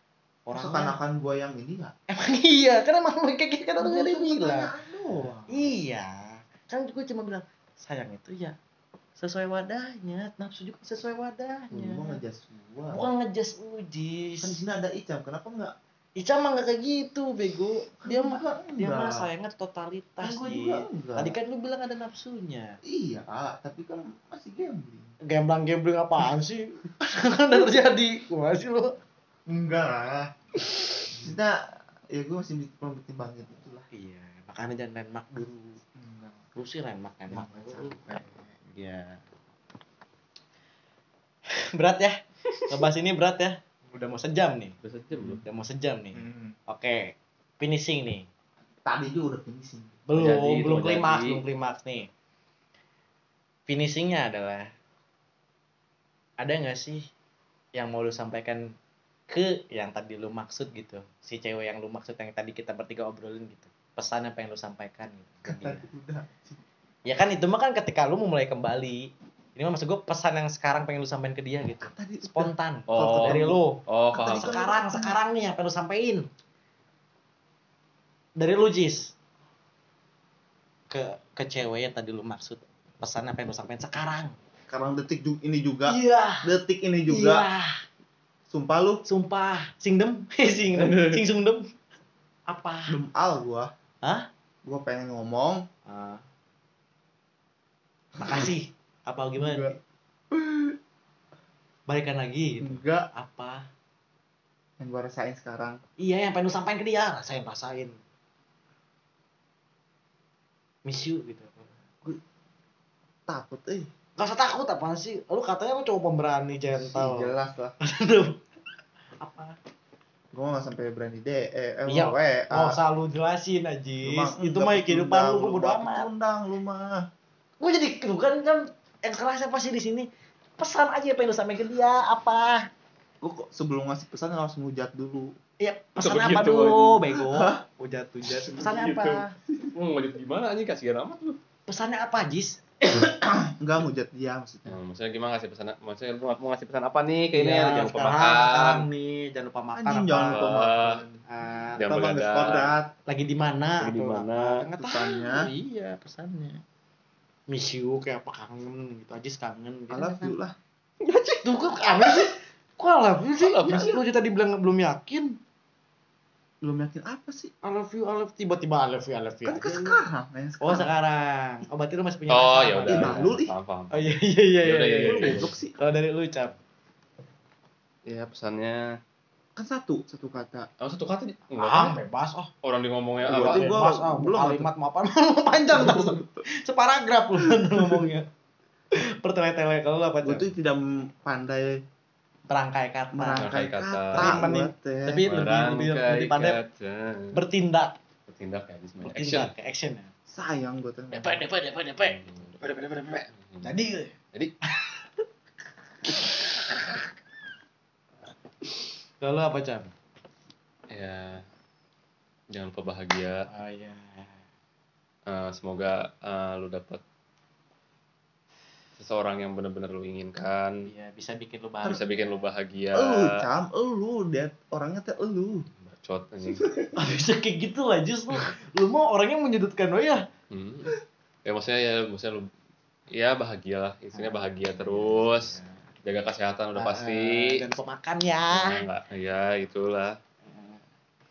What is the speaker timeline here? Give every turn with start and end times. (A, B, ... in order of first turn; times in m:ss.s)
0:00.4-0:01.0 A
0:00.5-0:01.9 B
0:02.1-0:04.7 A
0:03.8-0:05.7 B
0:05.5-0:08.6 A
0:09.2-0:12.2 A
0:11.7-0:13.0 B
0:12.9-0:14.6 A
0:14.4-0:15.7 B
0:16.2-0:22.8 A
0:18.0-0:19.3 B
0:20.2-0:21.4 B
0:22.8-0:25.1 B
0:25.2-0:29.0 A
0:29.5-0:30.3 B
0:31.1-0:33.9 B
0:33.9-0:35.8 A
0:36.0-0:36.4 B
0:36.5-0:38.0 A
0:37.3-0:38.5 B
0:38.6-0:39.2 A
0:41.5-0:44.8 A
0:44.8-0:45.4 C
0:45.3-0:48.3 A
0:46.1-0:46.6 B
0:48.8-0:50.0 B
0:50.1-0:52.1 A
0:50.1-0:51.4 C
0:53.7-0:54.7 A
0:56.4-0:57.1 A
0:57.7-0:58.7 A
0:59.3-1:05.9 A
1:05.4-1:06.6 B
1:07.0-1:16.3 A
1:11.8-1:13.6 B
1:12.9-1:14.6 C
1:14.1-1:15.2 B
1:18.4-1:19.1 A
1:20.9-1:24.4 A
1:24.7-1:27.5 B
1:25.9-1:26.5 A
1:27.1-1:27.8 A
1:28.5-1:29.0 B
1:29.0-1:31.7 A
1:32.5-1:33.0 A
1:32.9-1:33.7 B
1:34.0-1:34.3 A
1:34.6-1:35.6 B
1:35.9-1:36.2 A
1:38.2-1:39.8 A
1:38.2-1:38.5 B
1:39.4-1:39.8 B
1:40.3-1:40.8 B
1:41.9-1:43.7 A
1:42.6-1:43.1 B
1:44.8-1:45.8 B
1:46.0-1:48.0 A
1:50.8-1:51.7 A
1:53.3-1:53.9 B
1:54.2-1:58.4 A
1:56.7-1:57.8 B
1:59.2-1:59.6 A
2:00.3-2:02.8 B
2:01.9-2:06.1 A
2:04.0-2:07.1 B
2:07.6-2:12.7 A
2:13.2-2:15.3 B
2:15.6-2:19.3 A
2:16.0-2:17.0 C
2:17.1-2:17.6 B
2:18.3-2:21.4 C
2:21.7-2:23.2 A
2:22.9-2:24.8 B
2:24.6-2:28.8 C
2:27.3-2:30.7 A
2:29.7-2:31.2 B
2:30.2-2:31.0 C
2:31.2-2:31.8 A
2:31.8-2:32.8 C
2:31.8-2:32.9 B
2:33.1-2:36.6 A
2:33.8-2:34.7 C
2:34.8-2:35.4 B
2:37.5-2:40.4 A
2:39.9-2:40.6 B
2:41.0-2:42.2 C
2:41.4-2:45.4 A
2:43.4-2:44.0 C
2:46.6-2:47.5 B
2:47.6-2:50.0 A
2:49.4-2:50.9 B
2:50.6-2:53.4 A
2:52.3-2:55.5 C
2:52.9-2:53.5 B
2:53.9-2:56.5 A
2:55.1-2:55.8 B
2:58.0-2:59.0 C
2:59.6-3:00.7 B
3:00.8-3:02.0 C
3:01.6-3:02.5 A
3:02.6-3:03.8 C
3:03.2-3:04.7 B
3:03.2-3:08.3 A
3:05.7-3:06.4 B
3:07.4-3:08.1 B
3:08.9-3:10.5 A
3:10.2-3:11.8 B
3:12.5-3:13.5 A
3:13.1-3:15.3 B
3:13.4-3:14.4 C
3:14.1-3:16.6 A
3:15.2-3:17.4 C
3:17.3-3:18.0 A
3:18.3-3:19.5 C
3:19.0-3:20.1 A
3:20.3-3:21.4 B
3:21.1-3:22.2 A
3:22.0-3:23.7 C
3:23.6-3:24.1 A
3:26.1-3:26.4 A
3:29.2-3:29.9 A
3:30.9-3:31.4 C
3:32.5-3:33.5 C
3:33.5-3:34.4 A
3:35.3-3:37.0 C
3:39.0-3:40.8 C
3:40.8-3:42.4 A
3:41.8-3:43.4 C
3:42.9-3:45.7 B
3:45.8-3:46.8 C
3:46.5-3:47.1 B
3:47.0-3:50.2 A
3:50.5-3:50.9 C
3:51.4-3:52.5 C
3:53.1-3:57.6 C
3:54.1-3:55.9 A
3:56.7-3:58.8 A
3:58.5-4:00.2 C
4:00.4-4:00.8 A